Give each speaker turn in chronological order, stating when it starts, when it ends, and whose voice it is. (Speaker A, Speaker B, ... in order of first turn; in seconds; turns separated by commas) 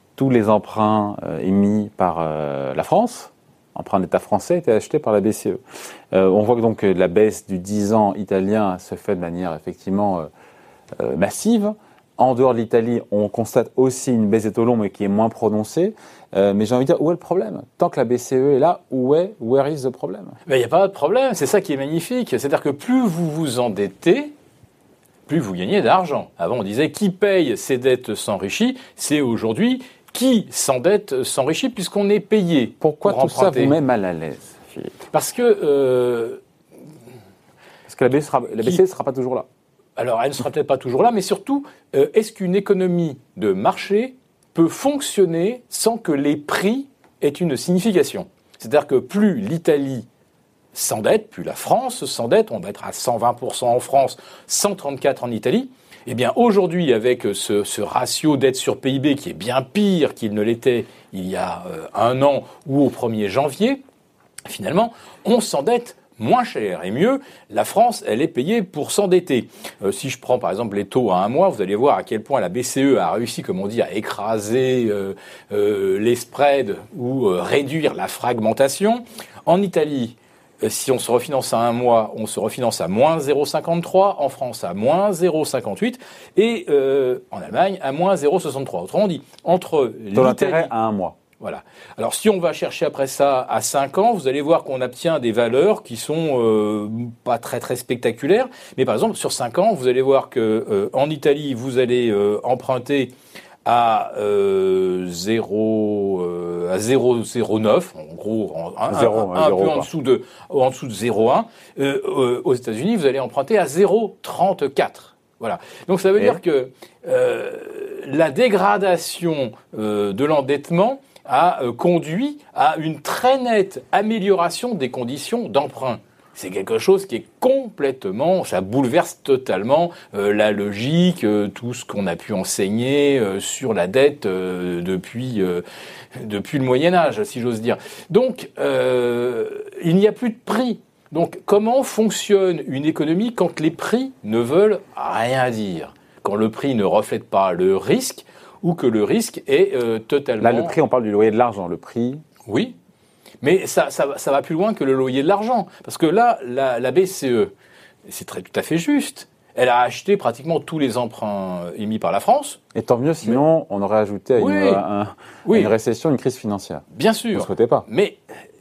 Speaker A: 0.1-5.6, Speaker A: 6.1-10.3, Speaker A: 11.0-20.4, Speaker B: 20.4-24.3, Speaker B: 25.3-33.7, Speaker A: 32.8-35.0, Speaker B: 35.1-36.4, Speaker A: 37.9-39.5, Speaker B: 40.0-50.0, Speaker B: 50.7-63.8, Speaker B: 64.5-90.7, Speaker A: 90.1-91.2, Speaker B: 91.4-103.1, Speaker B: 103.6-135.6, Speaker A: 108.9-109.9, Speaker B: 136.1-150.8, Speaker A: 150.4-152.2, Speaker B: 152.4-152.7, Speaker B: 153.4-157.5, Speaker B: 158.1-162.6, Speaker A: 162.7-167.8, Speaker B: 164.3-164.8, Speaker B: 165.4-165.7, Speaker B: 166.9-168.2